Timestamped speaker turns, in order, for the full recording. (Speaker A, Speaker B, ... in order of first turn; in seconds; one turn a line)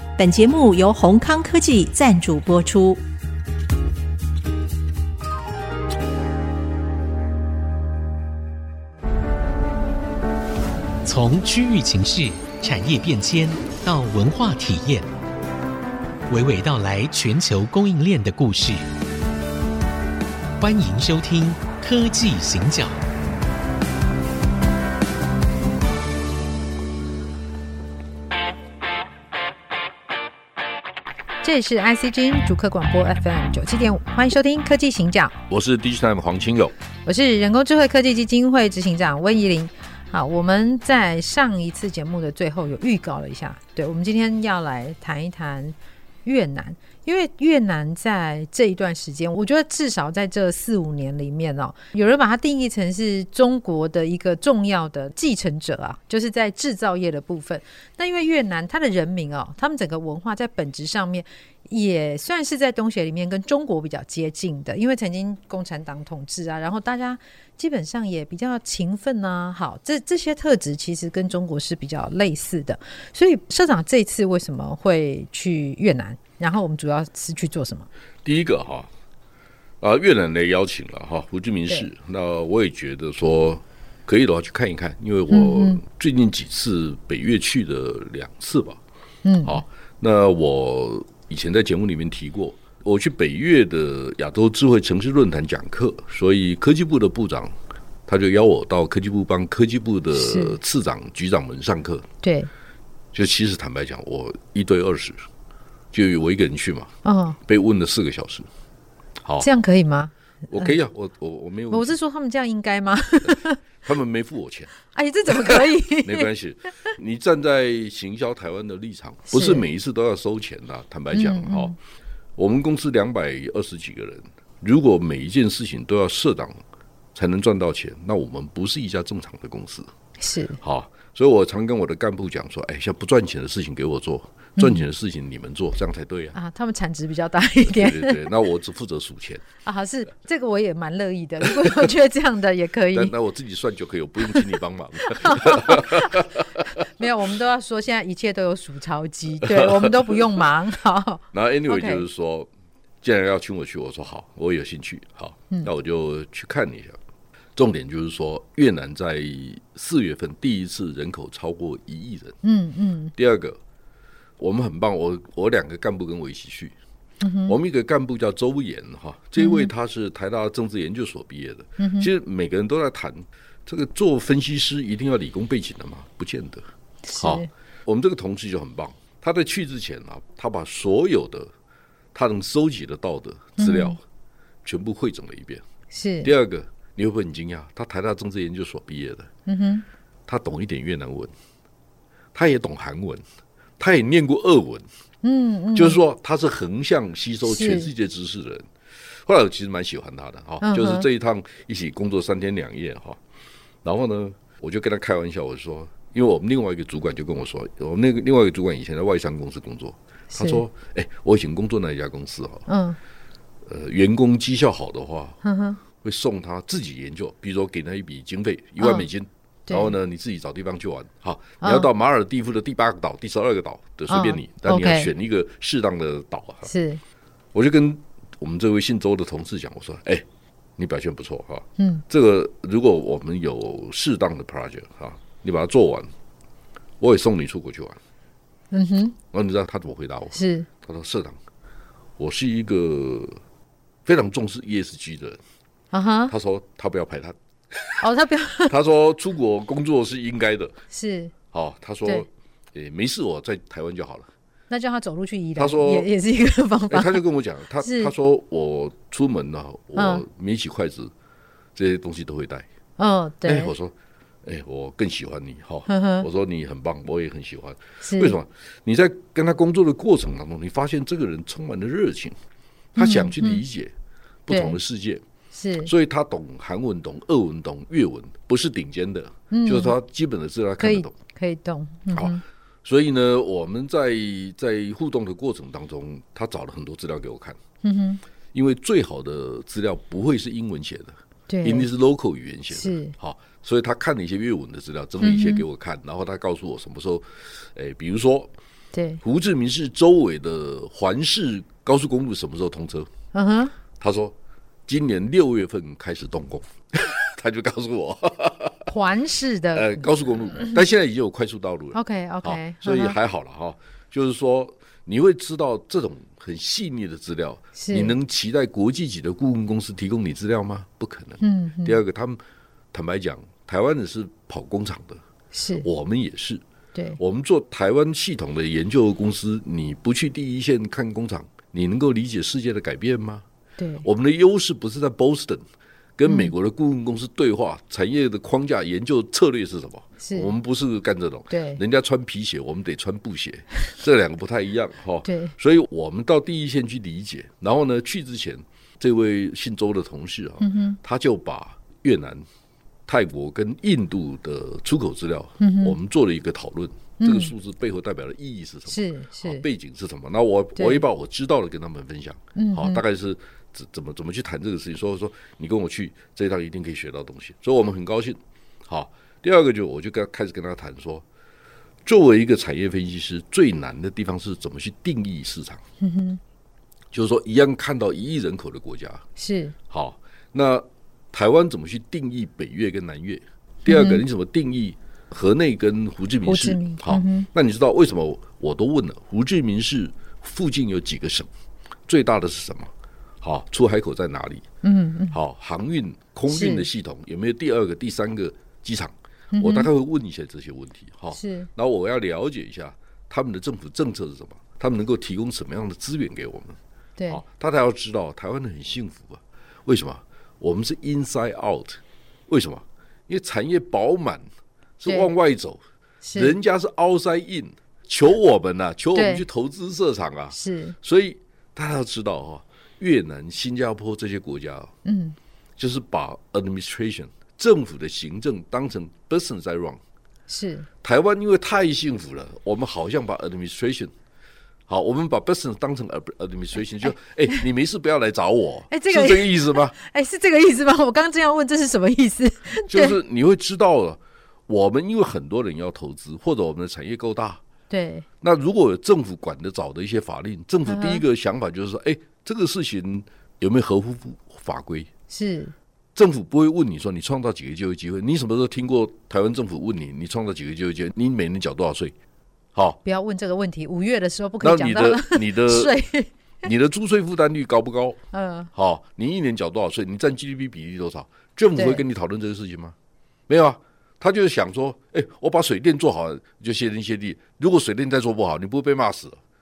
Speaker A: 0.2-3.0
Speaker B: 11.1-15.1
Speaker B: 16.3-18.8
Speaker B: 20.6-23.0
Speaker C: 31.4-35.3
Speaker D: 35.5-36.7
Speaker C: 37.1-77.9
Speaker D: 78.2-78.9
Speaker D: 79.8-88.8
Speaker C: 85.3-85.8
Speaker C: 89.2-89.6
Speaker D: 89.5-97.5
Speaker D: 98.1-102.1
Speaker C: 100.1-100.6
Speaker C: 102.2-102.5
Speaker D: 103.1-105.2
Speaker D: 105.9-106.9
Speaker C: 107.0-107.4
Speaker D: 107.5-108.5
Speaker C: 109.4-110.7
Speaker D: 110.5-112.0
Speaker C: 111.7-113.6
Speaker D: 113.2-114.7
Speaker C: 114.9-116.3
Speaker D: 115.3-121.8
Speaker C: 119.3-119.6
Speaker C: 121.1-121.8
Speaker D: 122.4-126.6
Speaker D: 127.2-129.9
Speaker C: 130.2-130.6
Speaker D: 130.6-136.4
Speaker C: 134.6-134.8
Speaker C: 136.3-138.3
Speaker D: 137.6-139.4
Speaker C: 139.6-143.1
Speaker D: 142.9-146.6
Speaker C: 145.1-146.3
Speaker C: 147.0-152.0
Speaker D: 149.4-150.2
Speaker D: 151.3-152.5
Speaker D: 153.0-157.0
Speaker D: 157.6-162.4
Speaker C: 162.4-163.1
Speaker D: 163.2-163.6
Speaker D: 164.4-166.8
Speaker C: 167.2-167.6
Speaker D: 167.5-176.7
Speaker C: 169.4-169.7
Speaker C: 171.8-172.1
Speaker C: 177.1-177.5
Speaker D: 177.2-181.5
Speaker D: 182.1-184.0
Speaker C: 183.6-184.0
Speaker D: 184.6-185.6
Speaker C: 185.9-186.3
Speaker D: 186.2-189.3
Speaker C: 189.5-189.8
Speaker D: 190.3-191.3
Speaker D: 192.3-193.2
Speaker D: 193.8-194.9
Speaker C: 195.2-196.0
Speaker D: 195.8-198.7
Speaker C: 197.4-197.9
Speaker D: 199.2-203.2
Speaker C: 200.6-201.1
Speaker D: 203.8-212.7
Speaker C: 210.3-210.6
Speaker C: 212.7-213.0
Speaker D: 213.7-215.4
Speaker C: 215.4-215.8
Speaker D: 216.0-226.7
Speaker C: 218.8-219.1
Speaker C: 219.7-219.9
Speaker C: 221.6-221.9
Speaker C: 224.1-225.1
Speaker C: 226.7-227.0
Speaker D: 227.5-230.2
Speaker D: 230.8-236.1
Speaker C: 231.8-232.0
Speaker D: 237.0-238.0
Speaker C: 238.7-239.2
Speaker D: 239.3-241.4
Speaker C: 240.3-240.7
Speaker D: 242.2-243.4
Speaker D: 244.1-245.4
Speaker C: 245.9-246.3
Speaker D: 246.3-248.0
Speaker C: 248.0-248.7
Speaker D: 248.7-250.8
Speaker C: 250.9-251.3
Speaker D: 251.5-254.3
Speaker C: 254.7-257.2
Speaker D: 255.6-256.1
Speaker D: 256.9-261.1
Speaker C: 257.8-258.1
Speaker C: 260.0-260.2
Speaker D: 261.8-262.7
Speaker C: 263.0-263.7
Speaker D: 263.4-263.9
Speaker D: 264.4-272.4
Speaker C: 265.9-266.3
Speaker C: 268.0-268.4
Speaker C: 273.0-273.6
Speaker D: 273.0-273.9
Speaker D: 274.5-275.2
Speaker C: 274.5-274.8
Speaker C: 275.5-275.9
Speaker D: 275.9-281.1
Speaker C: 279.5-279.9
Speaker C: 280.8-282.4
Speaker D: 282.1-287.6
Speaker C: 287.8-288.2
Speaker D: 288.5-298.5
Speaker C: 291.5-291.9
Speaker C: 292.7-293.1
Speaker C: 295.2-295.6
Speaker C: 298.9-299.2
Speaker D: 299.2-303.1
Speaker C: 303.3-303.7
Speaker D: 304.0-304.4
Speaker D: 304.9-308.9
Speaker C: 308.9-310.0
Speaker D: 309.7-322.4
Speaker C: 311.9-313.2
Speaker C: 317.8-318.1
Speaker C: 321.4-322.0
Speaker D: 322.9-325.2
Speaker C: 325.5-325.9
Speaker D: 325.8-326.6
Speaker C: 326.9-327.2
Speaker D: 327.2-333.4
Speaker C: 333.8-334.1
Speaker D: 334.0-335.6
Speaker D: 336.2-352.4
Speaker C: 336.3-336.5
Speaker C: 340.2-340.5
Speaker C: 341.5-341.8
Speaker C: 345.3-345.5
Speaker C: 350.6-351.0
Speaker D: 353.1-371.2
Speaker C: 355.6-355.9
Speaker C: 357.2-357.5
Speaker C: 358.9-359.6
Speaker C: 360.8-361.0
Speaker C: 362.6-363.0
Speaker D: 372.1-375.8
Speaker C: 376.0-376.4
Speaker D: 377.1-379.2
Speaker C: 379.4-379.8
Speaker D: 379.9-391.5
Speaker C: 383.9-384.2
Speaker C: 386.5-387.5
Speaker D: 392.1-392.9
Speaker D: 393.4-394.6
Speaker C: 394.8-395.4
Speaker D: 395.3-414.5
Speaker C: 396.5-396.9
Speaker C: 399.5-399.9
Speaker C: 401.3-401.7
Speaker C: 407.2-407.4
Speaker D: 415.0-415.8
Speaker C: 416.2-416.5
Speaker D: 416.4-424.9
Speaker C: 419.1-419.4
Speaker C: 420.5-421.0
Speaker C: 425.1-425.4
Speaker D: 425.8-430.0
Speaker C: 430.5-430.9
Speaker D: 431.0-434.1
Speaker D: 434.9-440.0
Speaker C: 438.9-443.2
Speaker D: 442.9-447.6
Speaker C: 447.9-448.3
Speaker D: 448.4-455.1
Speaker C: 450.9-451.2
Speaker C: 455.3-455.7
Speaker D: 456.1-462.1
Speaker D: 462.7-463.0
Speaker C: 463.1-466.3
Speaker D: 464.6-465.9
Speaker D: 466.6-468.2
Speaker C: 468.3-468.7
Speaker D: 468.8-472.9
Speaker C: 471.8-472.0
Speaker D: 473.5-479.4